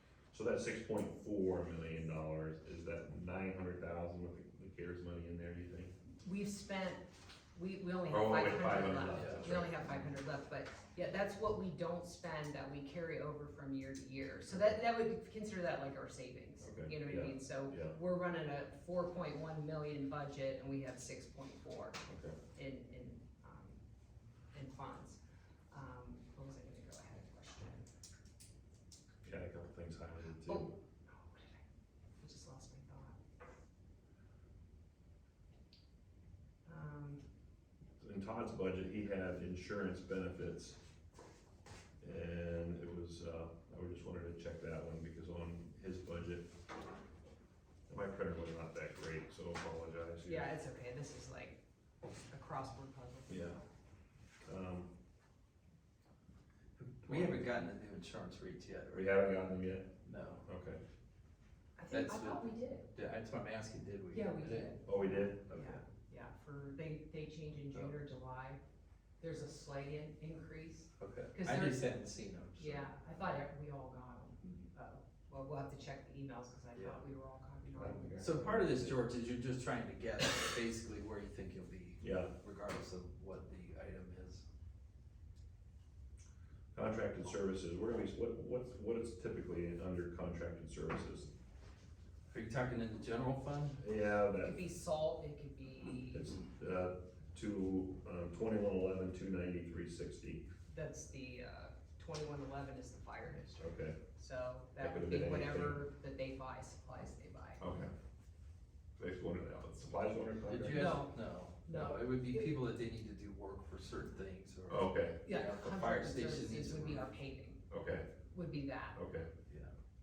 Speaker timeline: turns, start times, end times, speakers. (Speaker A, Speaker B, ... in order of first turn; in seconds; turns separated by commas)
Speaker A: 0.3-5.9, Speaker B: 6.2-22.0, Speaker A: 8.1-10.1, Speaker C: 9.1-9.5, Speaker A: 16.6-17.9, Speaker A: 22.1-22.4, Speaker B: 22.5-23.8, Speaker B: 24.5-25.2, Speaker B: 25.7-27.9, Speaker A: 29.2-30.7, Speaker B: 30.4-31.6, Speaker B: 32.2-33.2, Speaker B: 36.6-37.2, Speaker A: 38.0-40.8, Speaker A: 42.0-46.5, Speaker A: 47.9-50.5, Speaker B: 50.2-51.6, Speaker B: 52.3-53.6, Speaker A: 53.3-53.6, Speaker A: 54.4-54.9, Speaker C: 56.8-59.1, Speaker A: 57.0-57.5, Speaker A: 58.9-59.9, Speaker C: 60.0-60.4, Speaker A: 60.4-60.8, Speaker B: 61.8-62.9, Speaker C: 61.9-64.7, Speaker B: 64.1-64.9, Speaker A: 64.8-65.8, Speaker B: 65.5-68.6, Speaker B: 69.2-71.9, Speaker C: 71.0-72.8, Speaker B: 72.6-78.3, Speaker C: 76.7-77.0, Speaker A: 77.7-79.0, Speaker C: 78.2-84.4, Speaker A: 82.0-82.3, Speaker A: 86.7-91.3, Speaker C: 92.3-93.8, Speaker A: 93.8-94.6, Speaker B: 94.4-96.3, Speaker A: 96.0-100.5, Speaker B: 100.7-103.6, Speaker A: 103.6-104.0, Speaker B: 104.2-107.6, Speaker A: 104.8-105.8, Speaker A: 107.6-107.9, Speaker A: 109.0-111.0, Speaker C: 110.5-117.1, Speaker B: 110.7-112.5, Speaker A: 114.7-115.2, Speaker B: 115.2-117.6, Speaker A: 117.7-118.1, Speaker B: 118.3-119.0, Speaker A: 118.9-119.3